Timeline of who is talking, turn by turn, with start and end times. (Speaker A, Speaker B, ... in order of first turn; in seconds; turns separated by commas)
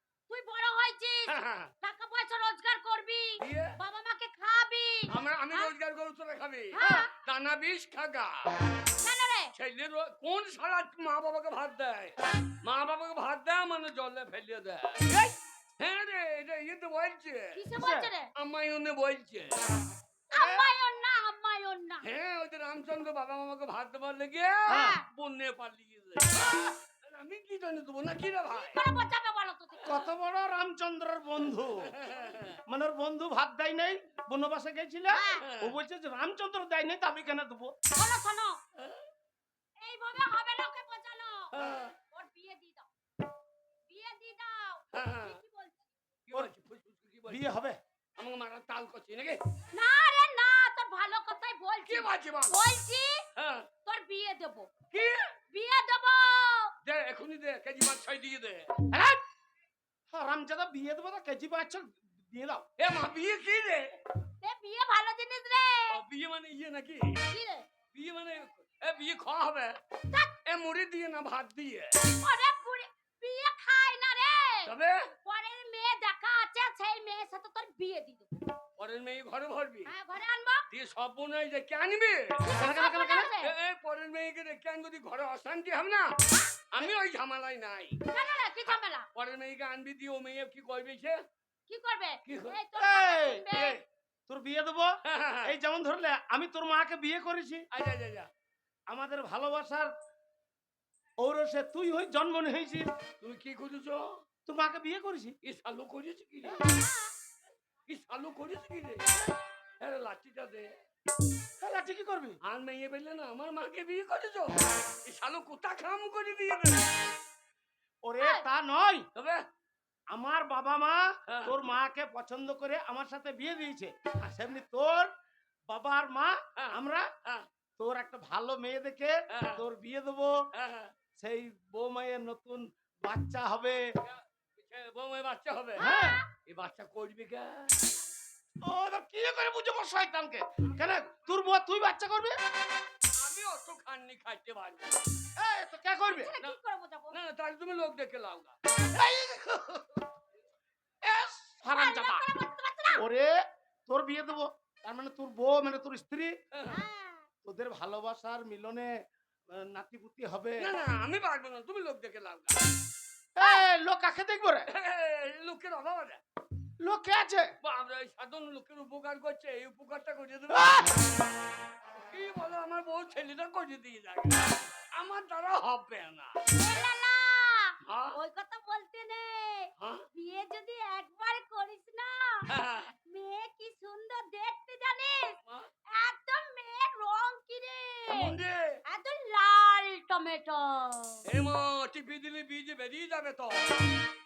Speaker A: 0.3-5.7, Speaker B: 1.3-1.7, Speaker B: 3.4-3.8, Speaker B: 5.1-8.5, Speaker A: 6.7-7.1, Speaker A: 9.0-9.5, Speaker B: 9.5-15.1, Speaker C: 15.1-15.3, Speaker B: 15.8-17.6, Speaker A: 17.6-18.3, Speaker C: 17.8-18.1, Speaker B: 18.3-19.6, Speaker C: 20.3-20.6, Speaker A: 20.3-22.1, Speaker B: 22.0-28.8, Speaker A: 24.6-25.0, Speaker C: 24.7-25.0, Speaker A: 28.5-30.0, Speaker C: 29.8-31.9, Speaker B: 31.6-32.6, Speaker C: 32.6-37.7, Speaker A: 35.1-35.4, Speaker B: 35.4-35.8, Speaker A: 37.9-38.6, Speaker B: 38.8-39.0, Speaker A: 39.8-42.9, Speaker B: 41.5-41.9, Speaker A: 43.9-45.9, Speaker B: 44.9-45.4, Speaker B: 46.3-47.5, Speaker C: 47.3-47.8, Speaker B: 48.2-49.4, Speaker A: 49.7-53.2, Speaker B: 51.9-52.6, Speaker B: 53.4-53.7, Speaker A: 53.8-54.7, Speaker B: 54.9-55.3, Speaker A: 55.5-56.7, Speaker B: 56.8-58.7, Speaker C: 58.9-59.2, Speaker C: 60.1-62.6, Speaker B: 62.8-64.0, Speaker A: 64.4-66.0, Speaker B: 65.9-67.2, Speaker A: 67.3-67.7, Speaker B: 67.9-69.8, Speaker B: 70.4-72.0, Speaker A: 72.0-74.7, Speaker B: 74.7-75.1, Speaker A: 75.2-78.3, Speaker B: 78.8-79.9, Speaker A: 79.8-80.7, Speaker B: 80.7-82.5, Speaker A: 82.4-83.5, Speaker C: 82.5-83.3, Speaker B: 83.4-88.0, Speaker A: 88.1-89.1, Speaker B: 89.1-91.2, Speaker A: 91.7-93.8, Speaker B: 92.2-92.6, Speaker C: 92.8-97.7, Speaker B: 95.0-95.5, Speaker B: 97.7-98.3, Speaker C: 98.9-99.9, Speaker C: 101.2-102.9, Speaker B: 103.2-104.2, Speaker C: 104.5-105.3, Speaker B: 105.4-106.6, Speaker A: 106.6-107.1, Speaker B: 107.9-109.1, Speaker B: 109.8-110.8, Speaker C: 111.6-112.4, Speaker B: 112.4-116.9, Speaker C: 118.0-119.1, Speaker A: 118.2-118.4, Speaker B: 119.1-119.4, Speaker C: 120.1-125.1, Speaker B: 121.3-121.5, Speaker C: 125.7-127.1, Speaker B: 126.6-127.5, Speaker C: 127.8-130.4, Speaker B: 129.3-129.6, Speaker B: 130.5-130.9, Speaker C: 131.2-133.8, Speaker B: 134.0-137.9, Speaker C: 135.8-136.2, Speaker A: 135.8-136.2, Speaker C: 138.6-142.4, Speaker B: 143.1-145.1, Speaker C: 145.3-146.3, Speaker A: 146.1-147.2, Speaker B: 147.1-148.6, Speaker C: 148.9-149.9, Speaker C: 151.0-152.2, Speaker A: 151.7-153.0, Speaker C: 152.9-156.3, Speaker B: 156.5-156.8, Speaker A: 156.7-157.3, Speaker C: 157.4-158.9, Speaker C: 159.5-160.7, Speaker B: 160.6-162.6, Speaker C: 163.3-164.7, Speaker B: 164.7-166.2, Speaker C: 166.8-167.5, Speaker B: 167.6-171.0, Speaker C: 170.5-170.9, Speaker B: 171.9-176.4, Speaker A: 176.5-182.5, Speaker B: 177.8-178.2, Speaker B: 179.8-180.1, Speaker B: 182.5-182.9, Speaker A: 183.0-185.3, Speaker A: 185.9-191.3, Speaker B: 188.1-188.8, Speaker B: 191.2-193.9